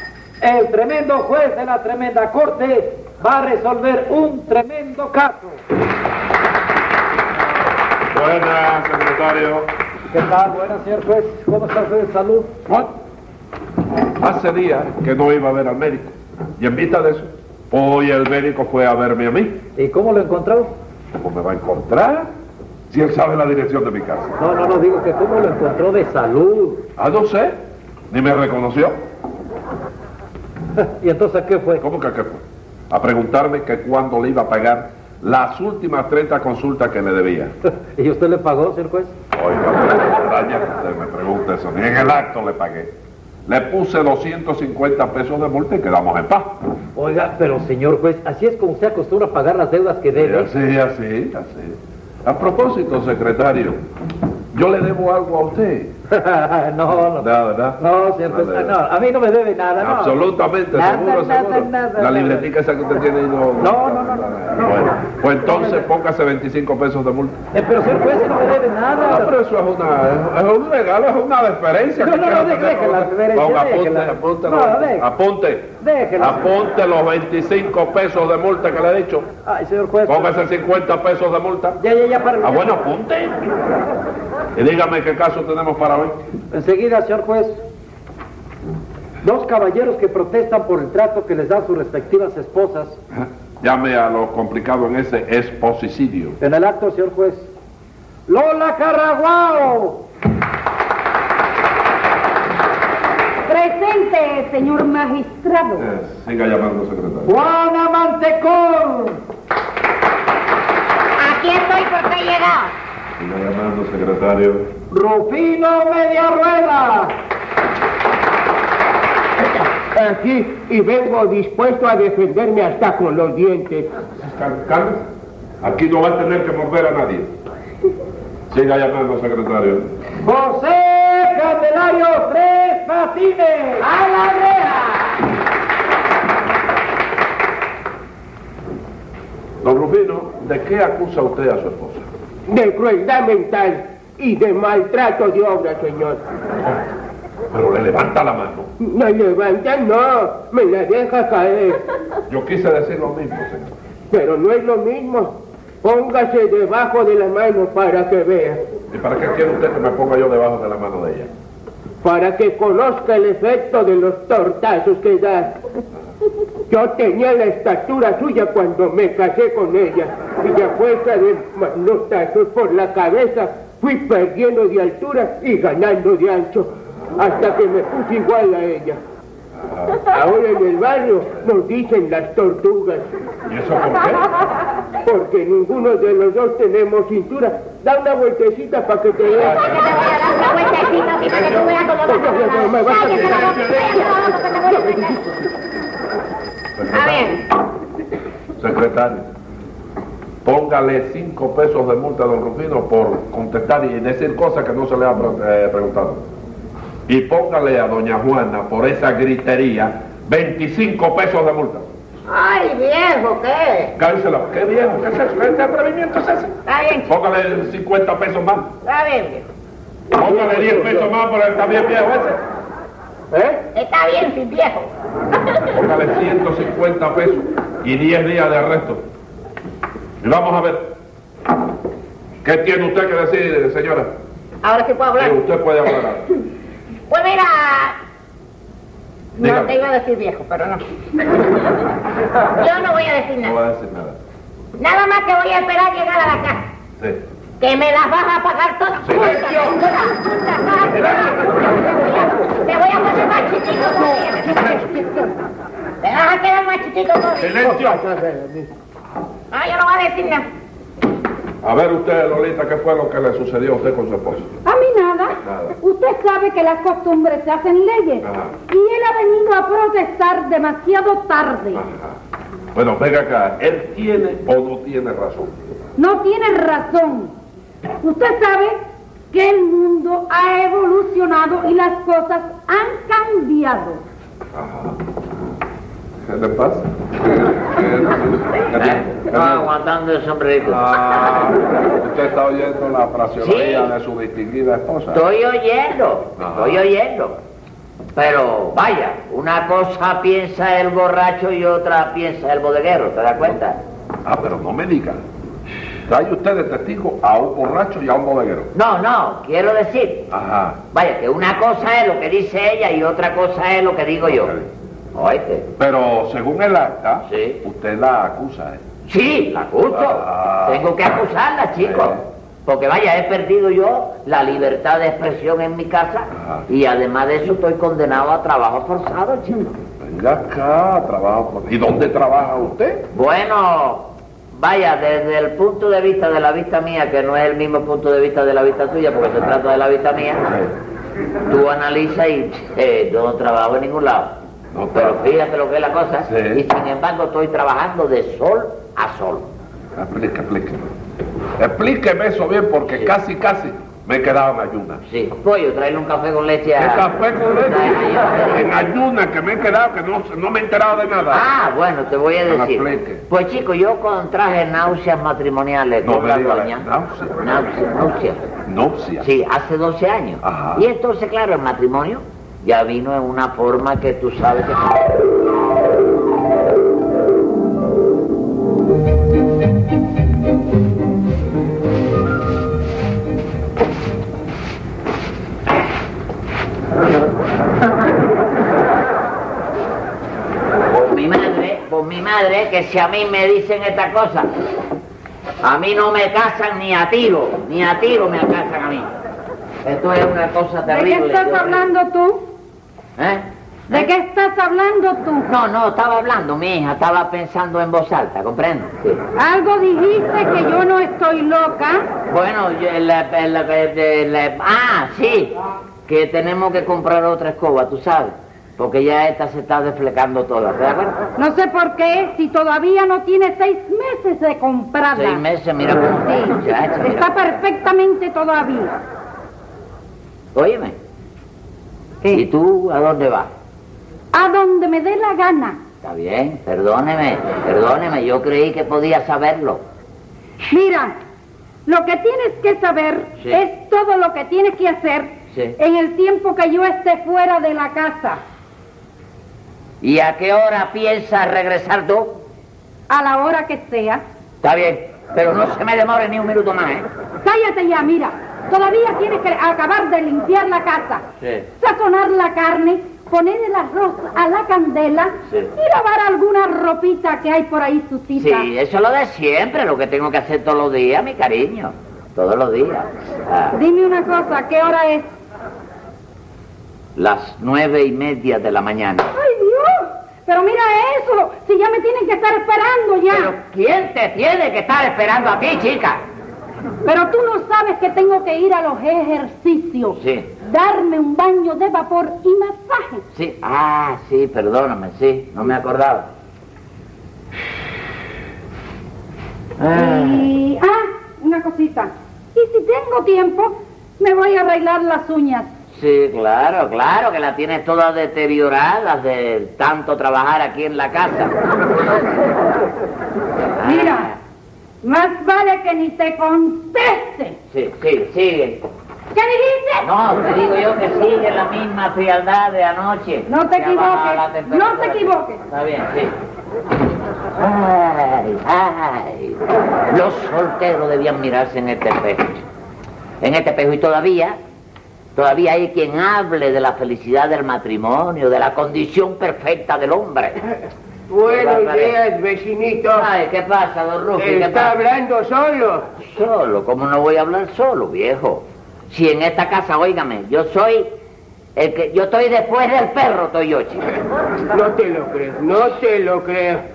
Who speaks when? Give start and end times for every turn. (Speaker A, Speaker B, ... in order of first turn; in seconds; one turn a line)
Speaker A: 0.4-5.6
Speaker B: 8.1-9.7
Speaker A: 10.1-12.5
Speaker B: 12.7-12.9
Speaker B: 14.2-19.6
Speaker A: 19.8-20.7
Speaker B: 21.2-22.3
Speaker B: 22.9-24.3
Speaker A: 24.4-26.8
Speaker B: 27.0-27.6
Speaker B: 28.1-29.0
Speaker A: 30.8-31.8
Speaker B: 31.8-37.5
Speaker A: 37.7-39.1
Speaker B: 39.3-42.9
Speaker B: 43.5-46.5
Speaker A: 47.0-50.5
Speaker B: 50.2-53.8
Speaker B: 54.5-55.9
Speaker A: 56.1-62.5
Speaker B: 57.1-58.8
Speaker B: 59.8-67.4
Speaker A: 63.6-65.8
Speaker A: 67.5-69.3
Speaker B: 69.0-79.3
Speaker A: 72.0-75.1
Speaker A: 75.8-76.5
Speaker A: 79.5-80.4
Speaker B: 80.1-81.8
Speaker A: 81.8-82.8
Speaker B: 82.4-83.4
Speaker B: 84.5-86.2
Speaker A: 86.5-87.6
Speaker A: 89.2-93.0
Speaker B: 93.2-96.4
Speaker A: 96.4-97.5
Speaker A: 98.3-100.0
Speaker C: 103.5-105.9
Speaker B: 105.8-107.3
Speaker A: 107.3-109.2
Speaker D: 111.2-112.7
Speaker B: 113.2-114.7
Speaker A: 114.9-117.1
Speaker E: 119.9-123.9
Speaker B: 124.2-125.0
Speaker B: 125.6-127.3
Speaker B: 128.5-129.9
Speaker A: 130.2-133.9
Speaker F: 133.8-135.2
Speaker B: 139.6-142.1
Speaker E: 142.5-146.2
Speaker B: 147.5-148.7
Speaker E: 148.8-151.8
Speaker B: 152.3-153.7
Speaker E: 154.1-158.6
Speaker B: 158.9-161.3
Speaker E: 162.0-165.6
Speaker E: 166.7-179.0
Speaker B: 179.6-180.0
Speaker E: 180.1-183.1
Speaker B: 183.5-184.3
Speaker E: 185.0-189.9
Speaker D: 189.4-195.2
Speaker E: 192.1-193.8
Speaker E: 194.7-195.0
Speaker B: 196.9-197.2
Speaker D: 196.9-197.4
Speaker B: 198.6-199.2
Speaker B: 200.4-206.2
Speaker B: 207.1-211.9
Speaker D: 212.3-213.9
Speaker B: 214.0-216.5
Speaker D: 216.7-217.1
Speaker B: 217.1-218.7
Speaker D: 218.8-219.4
Speaker B: 220.1-222.4
Speaker E: 220.2-221.1
Speaker E: 223.3-223.6
Speaker D: 223.7-224.9
Speaker B: 225.7-229.0
Speaker B: 230.2-230.9
Speaker B: 232.4-234.1
Speaker D: 234.6-235.4
Speaker B: 235.2-236.3
Speaker D: 237.1-238.0
Speaker D: 239.4-241.6
Speaker B: 239.4-239.8
Speaker D: 242.6-243.5
Speaker B: 243.4-244.2
Speaker D: 244.8-246.7
Speaker D: 247.6-254.7
Speaker B: 249.1-249.8
Speaker E: 254.7-255.2
Speaker D: 256.0-257.6
Speaker B: 257.4-257.9
Speaker E: 257.6-258.7
Speaker D: 259.5-260.5
Speaker B: 261.6-264.6
Speaker C: 264.6-271.8
Speaker B: 265.4-265.8
Speaker B: 268.2-268.5
Speaker B: 271.8-272.2
Speaker B: 272.7-275.6
Speaker C: 276.0-277.3
Speaker C: 278.0-278.8
Speaker C: 279.3-284.0
Speaker B: 284.6-285.0
Speaker B: 286.3-289.7
Speaker F: 288.8-291.2
Speaker B: 290.6-295.2
Speaker F: 293.4-293.9
Speaker F: 295.1-297.4
Speaker B: 296.4-296.9
Speaker F: 298.2-303.8
Speaker B: 304.2-305.2
Speaker B: 306.1-308.7
Speaker F: 308.7-310.3
Speaker B: 310.3-310.8
Speaker F: 310.9-314.6
Speaker B: 314.3-314.7
Speaker F: 315.1-315.7
Speaker B: 315.8-318.8
Speaker F: 317.3-317.6
Speaker F: 319.1-329.8
Speaker B: 319.9-320.9
Speaker B: 321.8-322.2
Speaker B: 326.4-326.6
Speaker B: 330.0-333.1
Speaker F: 333.1-340.5
Speaker B: 340.5-340.7
Speaker F: 341.5-344.4
Speaker B: 344.7-345.3
Speaker F: 344.9-349.5
Speaker B: 346.2-346.6
Speaker B: 349.9-350.9
Speaker B: 351.6-355.0
Speaker F: 352.9-353.1
Speaker F: 355.1-357.1
Speaker B: 356.8-361.5
Speaker F: 357.7-358.6
Speaker F: 361.3-366.9
Speaker B: 362.5-363.2
Speaker B: 366.0-367.5
Speaker F: 367.4-368.5
Speaker B: 368.6-369.3
Speaker F: 369.2-374.8
Speaker B: 370.4-370.9
Speaker F: 390.9-394.5
Speaker F: 395.6-399.1
Speaker F: 399.8-401.9
Speaker C: 400.9-402.5
Speaker F: 403.2-404.1
Speaker C: 403.9-405.5
Speaker F: 405.5-409.2
Speaker C: 409.4-412.1
Speaker F: 412.3-421.2
Speaker C: 421.4-425.4
Speaker F: 425.1-427.5
Speaker C: 427.0-428.9
Speaker F: 430.6-431.0
Speaker F: 432.3-433.5
Speaker C: 434.3-435.8
Speaker F: 436.0-439.8
Speaker C: 440.6-441.2
Speaker C: 441.9-448.4
Speaker F: 450.0-452.4
Speaker C: 453.1-454.2
Speaker F: 454.6-457.1
Speaker C: 457.4-461.2
Speaker F: 461.4-461.7
Speaker C: 461.8-468.7
Speaker F: 468.4-473.8
Speaker C: 473.7-475.3
Speaker F: 477.2-479.3
Speaker C: 479.3-483.5
Speaker F: 483.3-486.2
Speaker C: 487.0-493.2
Speaker F: 490.1-490.5
Speaker F: 493.3-496.3
Speaker F: 499.8-500.5
Speaker C: 499.9-505.7
Speaker F: 505.9-511.6
Speaker F: 513.8-514.4
Speaker C: 513.8-514.3
Speaker C: 515.0-517.6
Speaker F: 517.7-518.9
Speaker C: 519.3-520.1
Speaker F: 520.0-526.4
Speaker C: 523.5-525.6
Speaker F: 527.6-532.6
Speaker F: 533.4-534.6
Speaker F: 535.4-540.6
Speaker E: 541.3-543.3
Speaker F: 541.5-542.2
Speaker F: 543.1-545.0
Speaker E: 544.4-546.1
Speaker F: 546.2-551.1
Speaker F: 551.8-554.1
Speaker E: 554.7-556.8